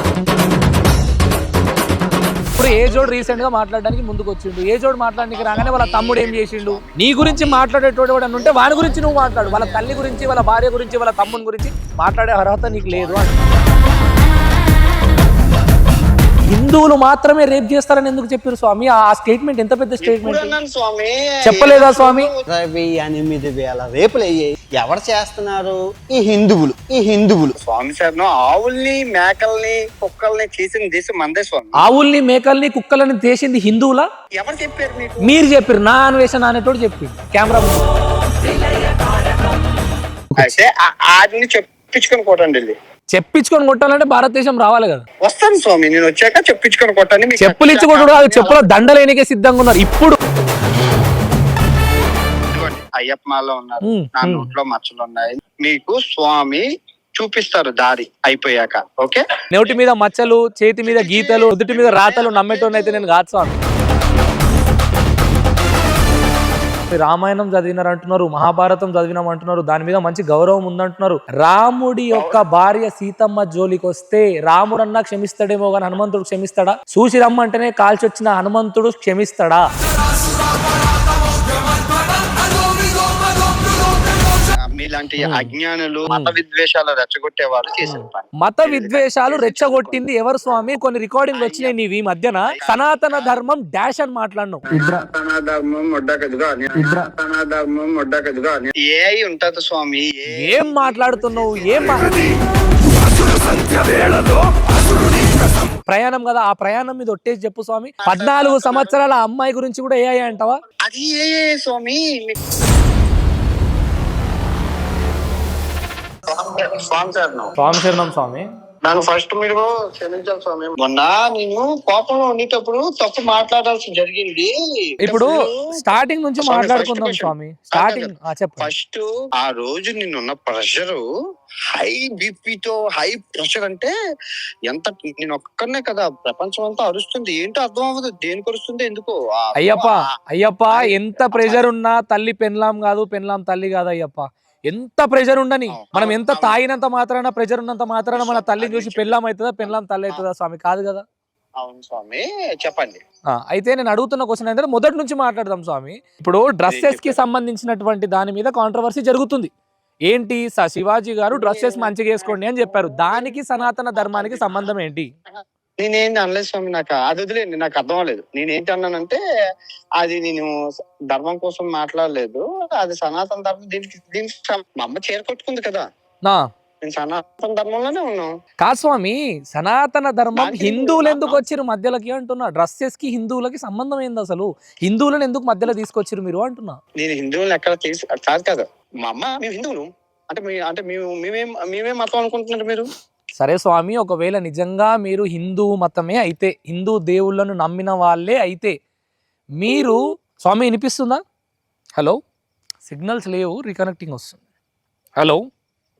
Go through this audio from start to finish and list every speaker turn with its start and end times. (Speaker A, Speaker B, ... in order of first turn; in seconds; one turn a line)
Speaker A: 2.6-13.4
Speaker B: 2.6-3.5
Speaker B: 5.2-7.7
Speaker B: 8.3-10.2
Speaker B: 12.6-13.3
Speaker A: 16.5-20.5
Speaker B: 20.0-22.4
Speaker A: 21.4-22.3
Speaker C: 22.5-27.5
Speaker B: 27.6-31.8
Speaker A: 31.8-34.1
Speaker B: 34.4-35.3
Speaker A: 35.2-37.9
Speaker B: 40.4-42.8
Speaker A: 43.1-45.0
Speaker B: 45.2-48.7
Speaker A: 47.4-50.2
Speaker B: 52.5-56.6
Speaker A: 53.8-54.5
Speaker B: 57.2-59.2
Speaker A: 59.5-63.6
Speaker B: 60.9-63.1
Speaker A: 66.9-79.7
Speaker B: 72.1-72.4
Speaker B: 84.8-90.0
Speaker A: 85.2-85.5
Speaker A: 86.1-86.4
Speaker A: 87.8-94.6
Speaker B: 91.3-91.7
Speaker B: 92.5-93.4
Speaker B: 94.7-102.3
Speaker A: 100.4-102.3
Speaker A: 103.1-110.6
Speaker B: 108.0-109.0
Speaker B: 110.8-112.3
Speaker B: 116.3-117.5
Speaker A: 117.6-118.5
Speaker B: 118.8-125.8
Speaker A: 125.0-128.7
Speaker B: 126.4-131.0
Speaker B: 131.7-133.9
Speaker B: 134.7-140.1
Speaker A: 139.6-151.0
Speaker B: 140.7-141.7
Speaker B: 145.7-146.6
Speaker B: 148.1-150.2
Speaker B: 151.6-153.0
Speaker A: 153.3-159.5
Speaker B: 156.7-157.2
Speaker A: 160.1-165.1
Speaker B: 161.3-162.4
Speaker B: 162.9-163.4
Speaker B: 163.9-164.7
Speaker B: 165.8-169.2
Speaker B: 170.0-170.6
Speaker B: 171.1-175.8
Speaker B: 176.8-178.3
Speaker A: 178.6-186.8
Speaker B: 180.4-181.4
Speaker B: 187.0-192.9
Speaker A: 193.4-198.7
Speaker A: 199.6-201.2
Speaker A: 202.8-204.4
Speaker A: 205.2-205.4